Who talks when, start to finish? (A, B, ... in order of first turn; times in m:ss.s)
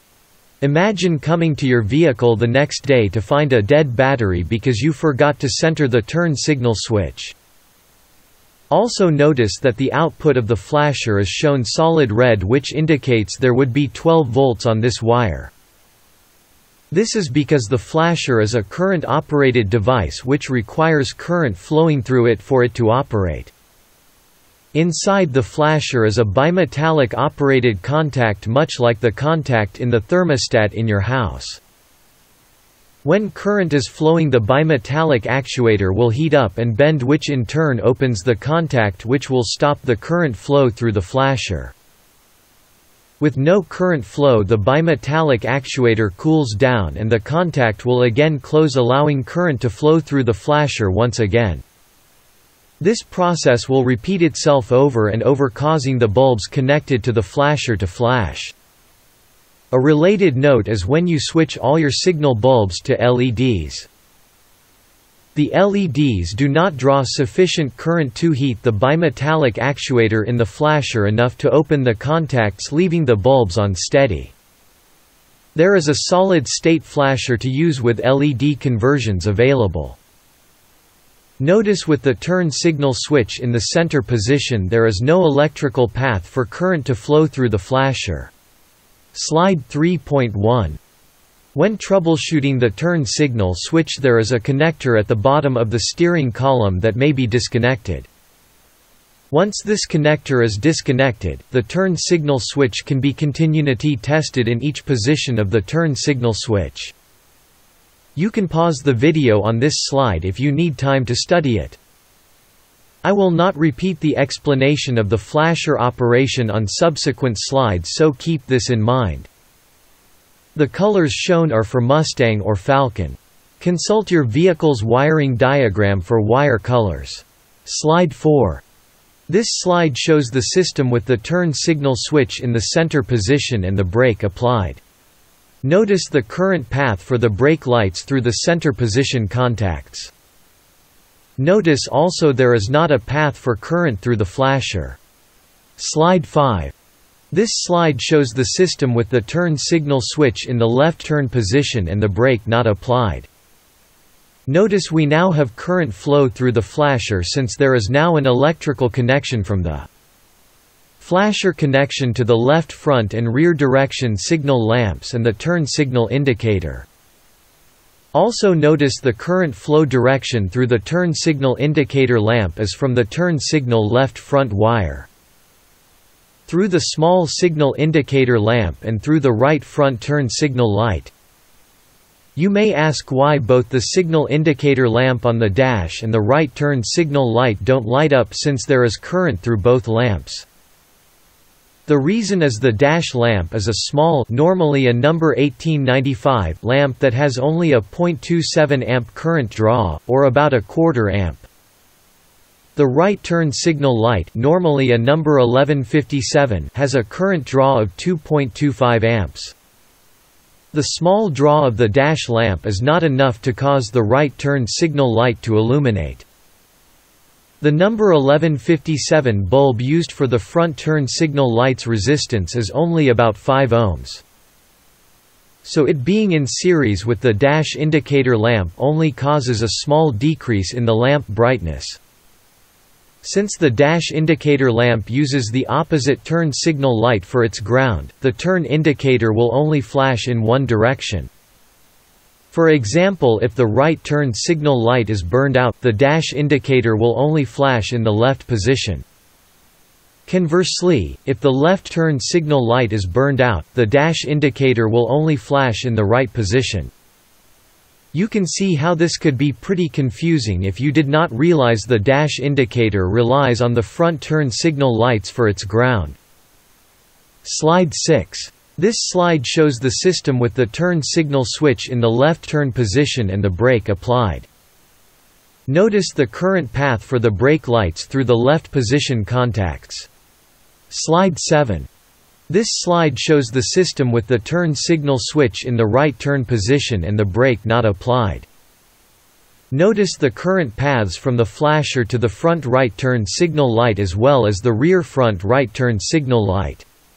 0:00.6-0:07.4 A
0:08.7-0:15.5 A
0:16.9-0:23.5 A
0:24.7-0:31.6 A
0:33.0-0:41.7 A
0:43.2-0:51.6 A
0:52.8-0:58.5 A
0:59.7-1:03.9 A
1:05.3-1:14.3 A
1:15.5-1:20.0 A
1:21.4-1:28.3 A
1:29.1-1:30.8 A
1:31.5-1:38.1 A
1:39.3-1:46.9 A
1:48.2-1:51.8 A
1:53.0-1:59.3 A
2:00.5-2:08.6 A
2:09.3-2:14.8 A
2:15.6-2:20.1 A
2:21.4-2:25.0 A
2:25.8-2:26.7 A
2:27.3-2:33.3 A
2:34.5-2:39.9 A
2:41.0-2:46.9 A
2:48.1-2:55.1 A
2:56.5-3:01.1 A
3:02.4-3:10.5 A
3:11.9-3:21.5 A
3:22.8-3:29.5 A
3:30.7-3:36.2 A
3:37.6-3:44.2 A
3:45.6-3:52.0 A
3:53.2-4:01.3 A
4:02.5-4:09.0 A
4:10.3-4:16.9 A
4:18.1-4:26.2 A
4:27.4-4:34.5 A
4:35.7-4:40.1 A
4:40.9-4:41.9 A
4:42.5-4:48.5 A
4:49.7-4:56.8 A